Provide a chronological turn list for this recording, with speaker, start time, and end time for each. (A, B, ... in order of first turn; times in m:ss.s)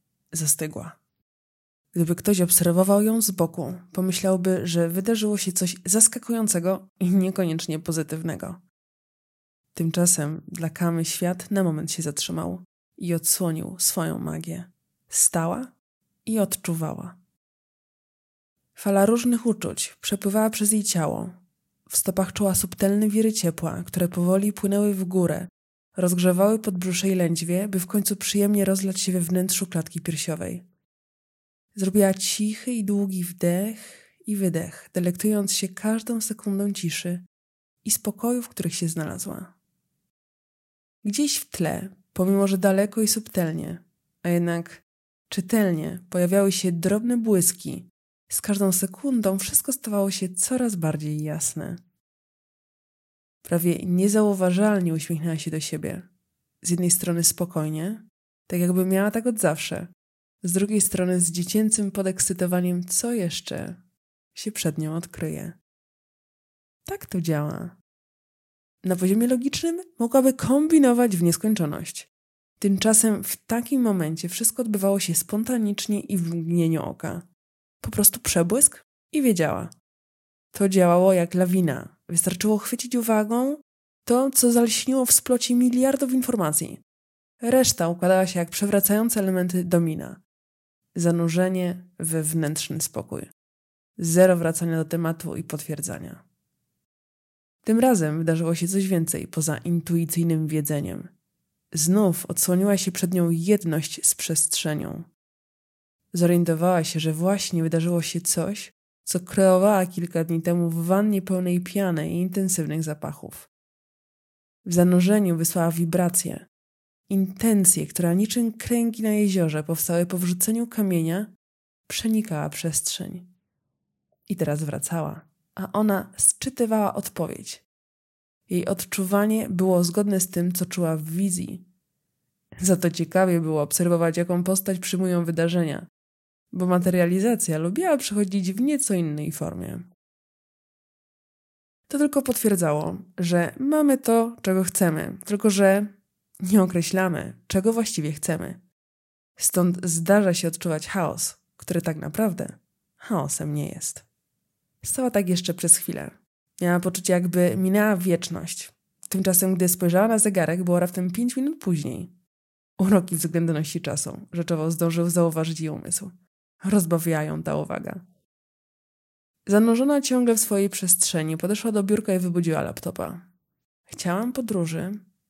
0:00.3-0:01.0 A
0:01.9-0:08.6 A
0:09.7-0:15.7 A
0:16.3-0:17.2 A
0:18.8-0:21.4 A
0:21.9-0:30.6 A
0:31.8-0:37.2 A
0:37.8-0:39.5 A
0:41.0-0:51.8 A
0:53.4-0:56.1 A
0:56.6-0:59.9 A
1:00.4-1:03.8 A
1:04.4-1:05.6 A
1:06.9-1:07.8 A
1:08.8-1:17.2 A
1:17.8-1:19.7 A
1:20.5-1:26.8 A
1:27.4-1:30.2 A
1:30.9-1:33.3 A
1:34.0-1:36.2 A
1:37.6-1:41.1 A
1:41.7-1:45.1 A
1:46.1-1:53.5 A
1:54.6-1:56.5 A
1:57.1-2:01.3 A
2:01.9-2:03.3 A
2:04.3-2:07.6 A
2:08.5-2:11.6 A
2:12.6-2:15.8 A
2:16.5-2:19.9 A
2:21.9-2:25.9 A
2:26.4-2:28.6 A
2:29.4-2:34.0 A
2:34.8-2:42.1 A
2:42.8-2:46.1 A
2:46.6-2:48.0 A
2:49.5-2:53.3 A
2:53.9-2:55.0 A